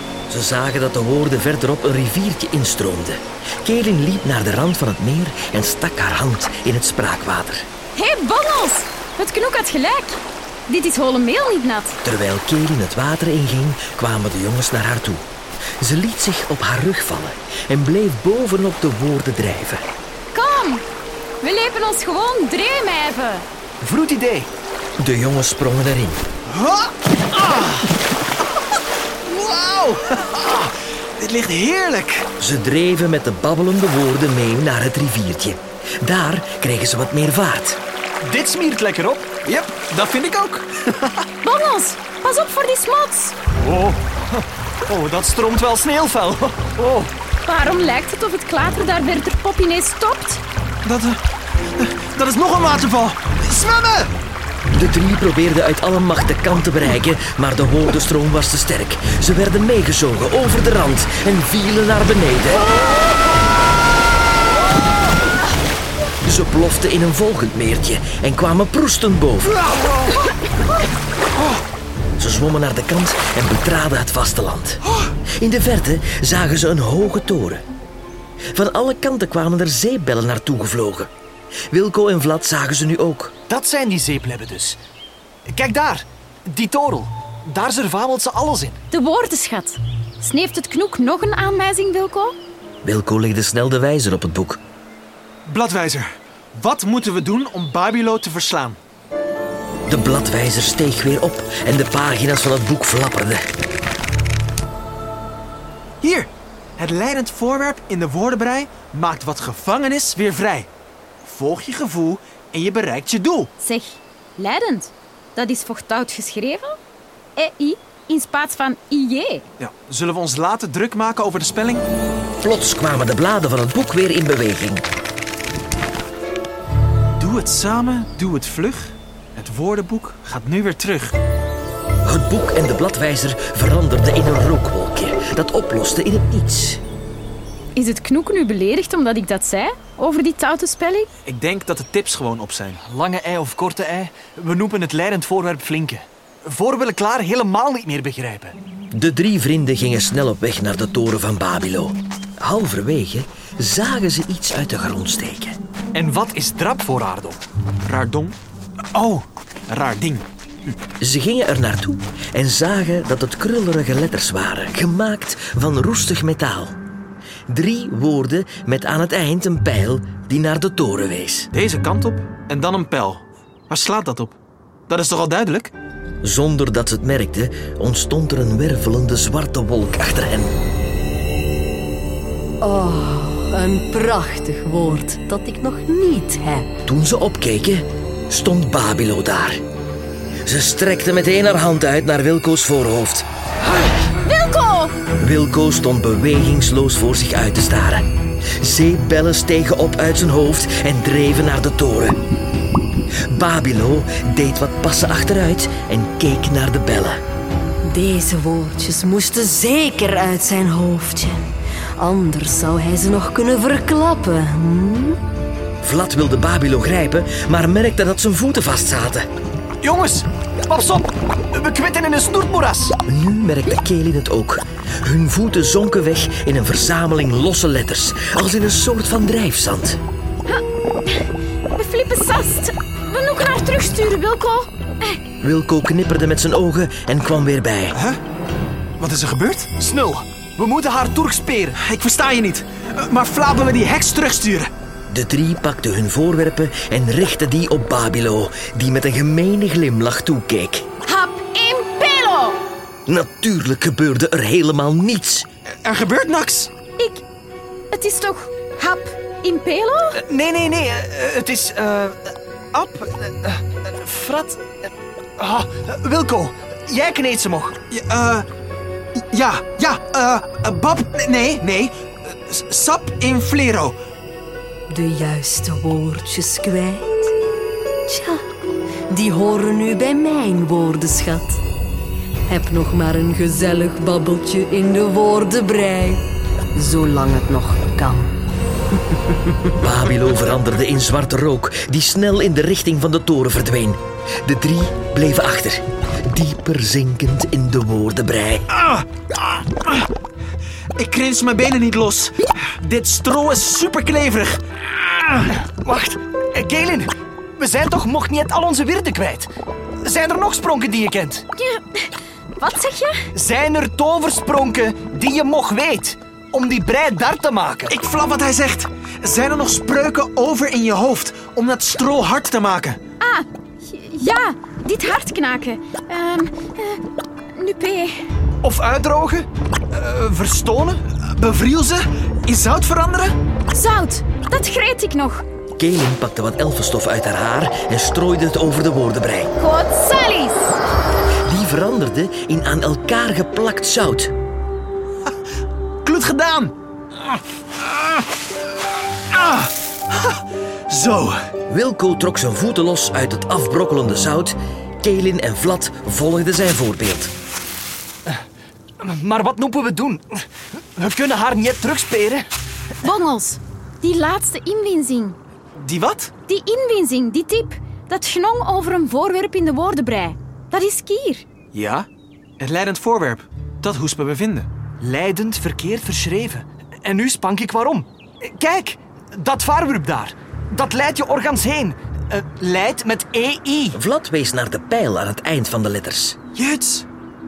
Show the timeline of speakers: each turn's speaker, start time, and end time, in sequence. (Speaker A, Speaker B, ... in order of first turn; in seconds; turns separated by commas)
Speaker A: 0.3-7.7, Speaker B: 7.9-12.0, Speaker A: 12.0-15.2, Speaker A: 15.8-19.9, Speaker B: 20.3-20.9, Speaker B: 21.4-23.4, Speaker C: 23.8-24.5, Speaker A: 25.0-26.2, Speaker D: 26.5-27.9, Speaker D: 29.2-32.3, Speaker A: 32.4-37.8, Speaker C: 38.2-39.4, Speaker D: 39.4-41.2, Speaker B: 41.4-43.4, Speaker C: 43.6-47.1, Speaker B: 47.4-50.4, Speaker D: 50.8-51.2, Speaker D: 51.7-54.1, Speaker A: 54.7-62.6, Speaker A: 66.2-69.6, Speaker A: 72.2-77.6, Speaker A: 78.5-81.1, Speaker A: 81.7-83.3, Speaker C: 83.5-84.8, Speaker C: 85.5-88.8, Speaker B: 88.9-92.4, Speaker A: 92.8-94.6, Speaker D: 95.5-98.8, Speaker A: 99.9-103.5, Speaker D: 106.0-110.7, Speaker D: 111.2-113.5, Speaker B: 113.6-116.8, Speaker B: 117.3-119.4, Speaker D: 119.6-121.8, Speaker A: 122.4-124.8, Speaker D: 127.2-131.2, Speaker A: 132.0-136.8, Speaker B: 137.7-141.1, Speaker D: 141.2-142.8, Speaker C: 142.8-148.6, Speaker A: 148.9-155.6, Speaker C: 155.9-157.4, Speaker D: 157.8-158.4, Speaker D: 158.9-160.2, Speaker A: 161.0-166.8, Speaker A: 167.5-171.5, Speaker D: 171.5-174.3, Speaker D: 174.9-175.7, Speaker A: 176.2-180.6, Speaker E: 182.6-186.7, Speaker A: 186.8-189.6, Speaker A: 190.4-193.3, Speaker B: 194.2-194.9, Speaker A: 195.2-202.2, Speaker A: 203.3-207.2, Speaker E: 207.8-211.4, Speaker E: 212.0-215.2, Speaker A: 215.8-219.3, Speaker C: 219.8-223.0, Speaker A: 223.1-230.0, Speaker B: 230.5-231.2, Speaker B: 231.7-235.2, Speaker A: 235.4-238.0, Speaker D: 237.9-238.2, Speaker D: 239.0-239.7, Speaker C: 239.8-241.8, Speaker D: 241.8-244.7, Speaker A: 245.1-250.9, Speaker B: 251.0-252.6, Speaker A: 253.1-255.5, Speaker D: 255.8-256.7, Speaker B: 257.0-257.2, Speaker B: 257.9-260.2, Speaker C: 260.1-262.2, Speaker C: 262.7-264.6, Speaker C: 265.4-267.8, Speaker D: 267.9-268.5, Speaker D: 269.2-273.9, Speaker E: 274.9-277.3, Speaker E: 278.1-278.5, Speaker E: 279.1-281.6, Speaker E: 282.5-286.2, Speaker E: 286.7-288.4, Speaker A: 289.8-298.7, Speaker D: 298.7-300.0, Speaker D: 300.9-304.6, Speaker C: 305.3-309.5, Speaker C: 310.0-311.4, Speaker B: 311.6-313.2, Speaker C: 313.3-317.9, Speaker D: 317.9-323.0, Speaker B: 323.2-327.0, Speaker B: 327.5-328.2, Speaker C: 328.6-331.0, Speaker D: 331.1-333.4, Speaker B: 333.7-335.4, Speaker A: 335.8-339.5, Speaker B: 339.6-340.8, Speaker A: 341.4-344.3, Speaker D: 346.0-346.7, Speaker D: 347.8-348.2, Speaker D: 349.3-351.4, Speaker A: 351.7-357.3, Speaker C: 359.0-362.5, Speaker B: 363.0-365.4, Speaker D: 365.8-366.3, Speaker B: 366.5-371.4, Speaker D: 371.7-372.1, Speaker D: 372.6-374.7, Speaker C: 375.0-384.0, Speaker A: 383.9-386.4, Speaker D: 386.5-387.1